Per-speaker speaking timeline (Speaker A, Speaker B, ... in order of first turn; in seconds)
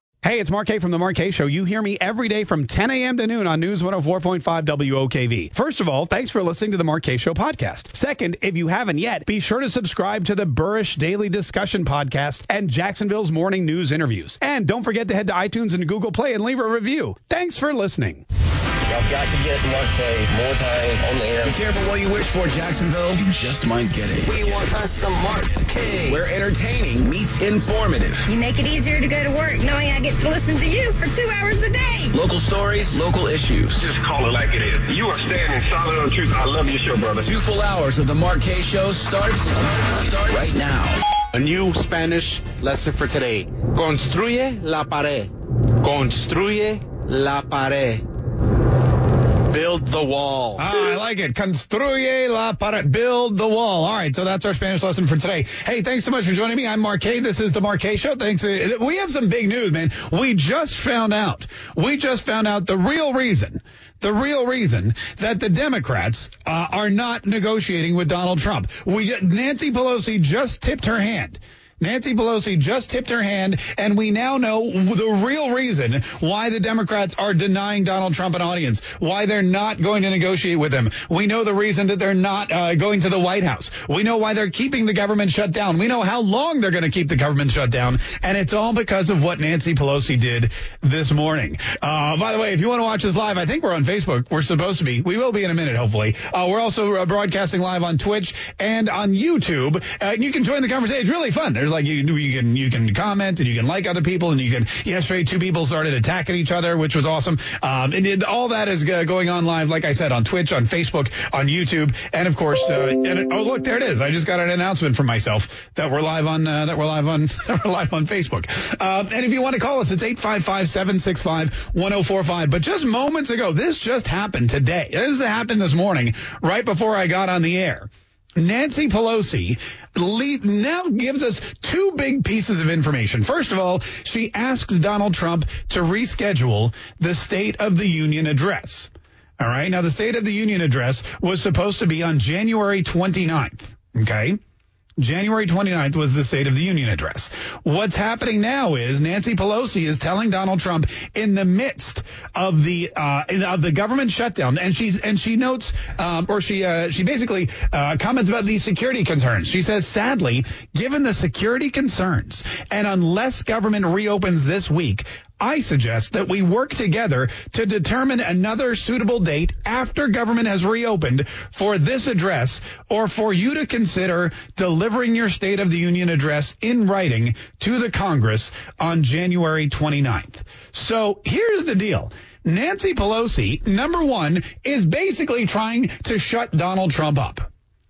Speaker A: 0.2-18.2, 50.6-144.4, 145.0-187.5
Speaker B: 18.9-21.6, 24.3-25.3
Speaker C: 21.4-28.3, 32.1-33.9, 37.2-41.0
Speaker D: 28.3-32.1
Speaker E: 33.8-37.4
Speaker F: 41.3-45.3, 45.8-48.0, 49.5-50.7